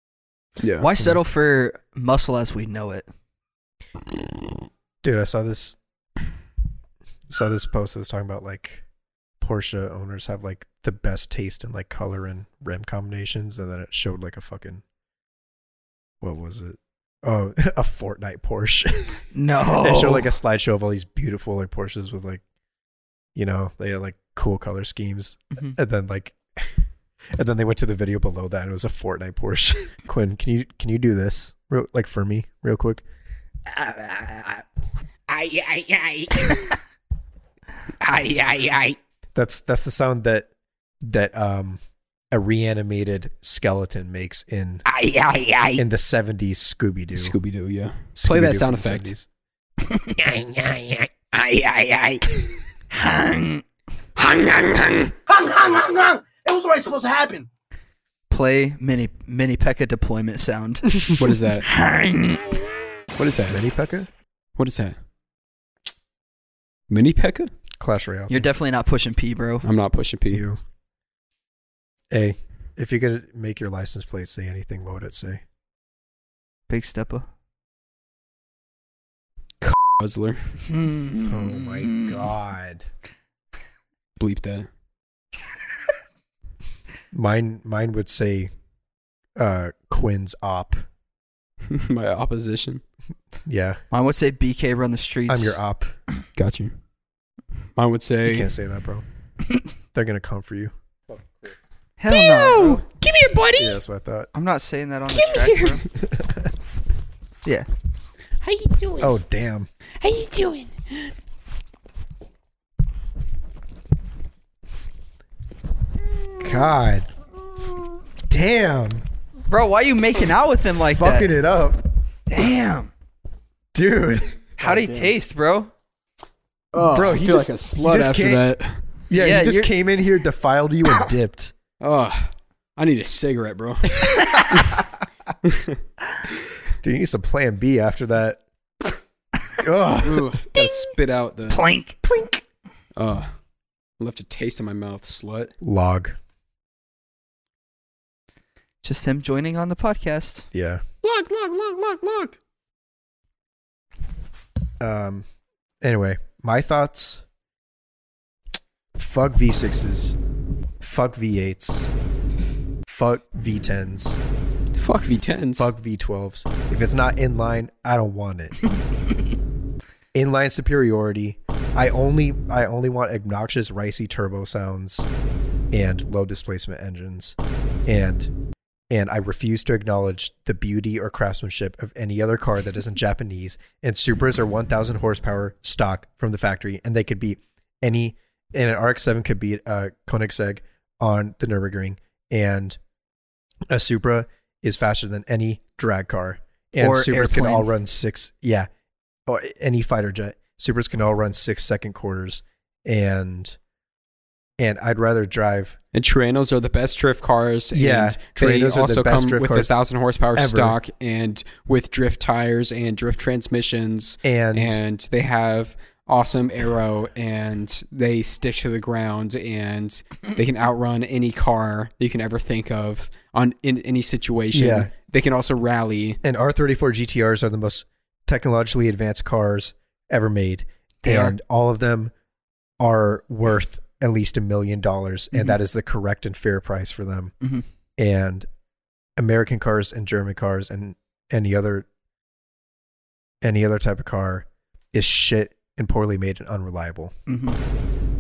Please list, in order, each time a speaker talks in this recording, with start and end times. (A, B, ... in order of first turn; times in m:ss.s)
0:00.6-0:00.9 A
0:00.8-0:03.1 B
0:05.0-0:05.8 C
0:07.3-0:08.8 C
0:09.4-0:14.8 C
0:16.2-0:22.4 C
0:19.3-0:20.3 B
0:23.4-0:26.7 C
0:27.4-0:33.0 C
0:33.7-0:34.6 D
0:35.3-0:36.8 D
0:38.0-0:39.0 D
0:39.4-0:40.5 C
0:41.0-0:44.8 C
0:44.9-0:45.8 D
0:45.8-0:47.4 C
0:47.1-0:49.1 A
0:48.2-0:49.3 C
0:49.9-0:52.4 D
0:52.9-0:53.6 B
0:54.2-0:55.1 A
0:55.3-0:57.5 E
0:58.3-1:01.1 B
1:01.2-1:01.7 A
1:01.6-1:02.6 B
1:03.2-1:03.6 A
1:03.5-1:04.1 C
1:04.6-1:05.0 A
1:06.9-1:07.5 A
1:07.8-1:08.5 C
1:08.3-1:09.7 B
1:09.6-1:10.5 A
1:10.3-1:10.6 C
1:12.1-1:15.4 C
1:16.7-1:17.3 B
1:19.6-1:20.5 A
1:20.7-1:22.2 B
1:21.3-1:22.9 C
1:24.2-1:24.7 A
1:27.1-1:28.5 C
1:29.4-1:30.8 C
1:31.7-1:32.8 A
1:33.4-1:33.8 C
1:33.9-1:35.6 B
1:35.3-1:36.0 C
1:36.4-1:36.7 A
1:37.8-1:38.5 A
1:38.2-1:39.0 C
1:39.9-1:41.6 C
1:42.0-1:42.8 B
1:42.1-1:43.8 A
1:43.6-1:44.3 C
1:44.3-1:45.8 B
1:45.2-1:45.5 D
1:46.0-1:46.5 C
1:48.4-1:49.1 D
1:49.0-1:49.7 C
1:50.0-1:50.7 D
1:56.4-1:57.1 C
1:58.3-1:59.0 C
1:59.5-2:01.3 B
2:01.0-2:01.9 C
2:02.3-2:02.9 B
2:03.7-2:04.6 C
2:04.6-2:05.7 B
2:04.7-2:05.0 A
2:06.7-2:08.7 A
2:06.8-2:08.5 C
2:09.1-2:11.5 C
2:09.2-2:09.7 B
2:11.8-2:14.8 A
2:14.6-2:14.8 C
2:15.4-2:15.8 A
2:16.8-2:18.4 C
2:19.6-2:20.4 C
2:20.0-2:21.6 A
2:21.5-2:22.0 B
2:22.0-2:22.4 C
2:23.0-2:23.3 A
2:24.0-2:25.5 A
2:25.6-2:26.2 C
2:28.8-2:30.5 B
2:30.5-2:30.8 C
2:31.0-2:32.3 A
2:34.8-2:35.2 C
2:35.8-2:37.2 C
2:39.0-2:40.2 C
2:40.8-2:41.9 C
2:42.9-2:44.2 C
2:44.8-2:45.7 A
2:45.6-2:48.6 C
2:50.1-2:55.1 C
2:55.7-2:58.3 C
2:58.9-3:12.8 C
3:13.7-3:18.7 C
3:16.8-3:17.7 B
3:19.3-3:23.6 C
3:24.6-3:25.8 C
3:25.9-3:46.2 A
3:27.7-3:29.7 C
3:30.4-3:30.8 C
3:34.2-3:34.8 C
3:44.5-3:44.9 C
3:46.2-3:52.1 C
3:51.0-3:51.4 B
3:52.8-3:57.3 C
3:58.0-3:58.5 C
3:59.2-4:01.9 C
4:03.4-4:07.2 C
4:07.3-4:07.6 B